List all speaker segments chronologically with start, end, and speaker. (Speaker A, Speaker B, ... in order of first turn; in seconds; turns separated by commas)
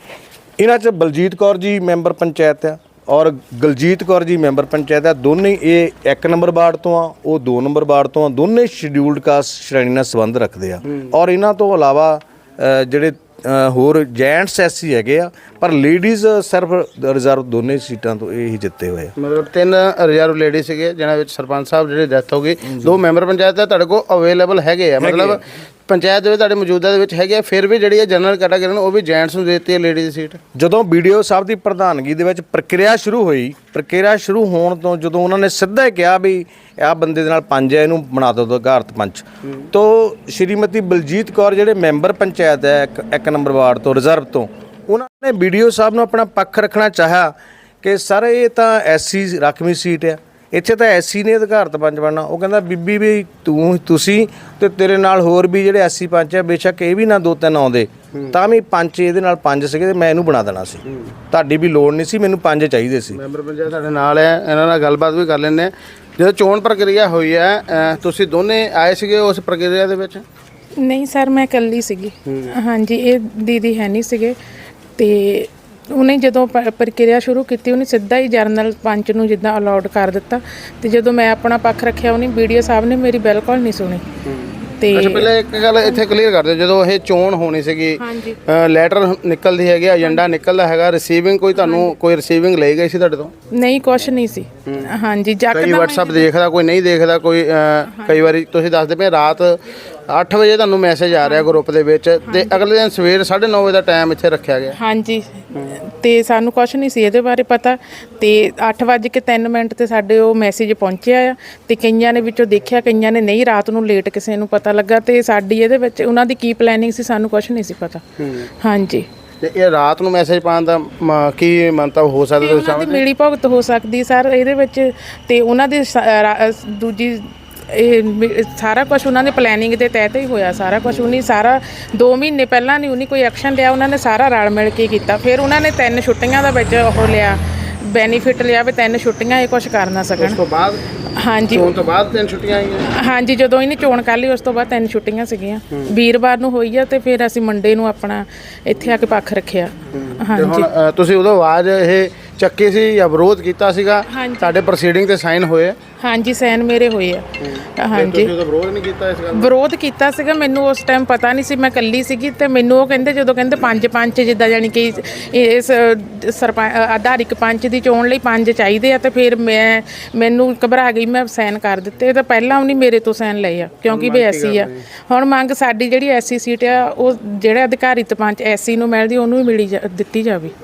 Speaker A: 0.6-19.1, Speaker B: 19.2-30.4, Speaker A: 25.0-25.4, Speaker A: 30.5-63.2, Speaker B: 63.1-70.2, Speaker C: 70.8-74.3, Speaker C: 75.0-84.0, Speaker B: 84.2-93.3, Speaker C: 84.8-86.0, Speaker C: 88.0-88.4, Speaker C: 91.6-91.9, Speaker C: 93.5-96.3, Speaker B: 95.5-104.8, Speaker C: 97.9-98.2, Speaker C: 101.2-101.6, Speaker C: 102.3-102.6, Speaker C: 104.8-118.0, Speaker B: 118.2-118.5, Speaker C: 118.6-119.1, Speaker B: 119.4-123.0, Speaker C: 122.4-140.4, Speaker B: 140.2-140.8, Speaker C: 141.2-141.7, Speaker B: 141.5-142.9, Speaker C: 142.9-150.7, Speaker B: 149.9-155.8, Speaker C: 154.1-154.6, Speaker C: 156.0-158.3, Speaker B: 157.4-159.5, Speaker C: 159.3-180.5, Speaker B: 173.9-174.8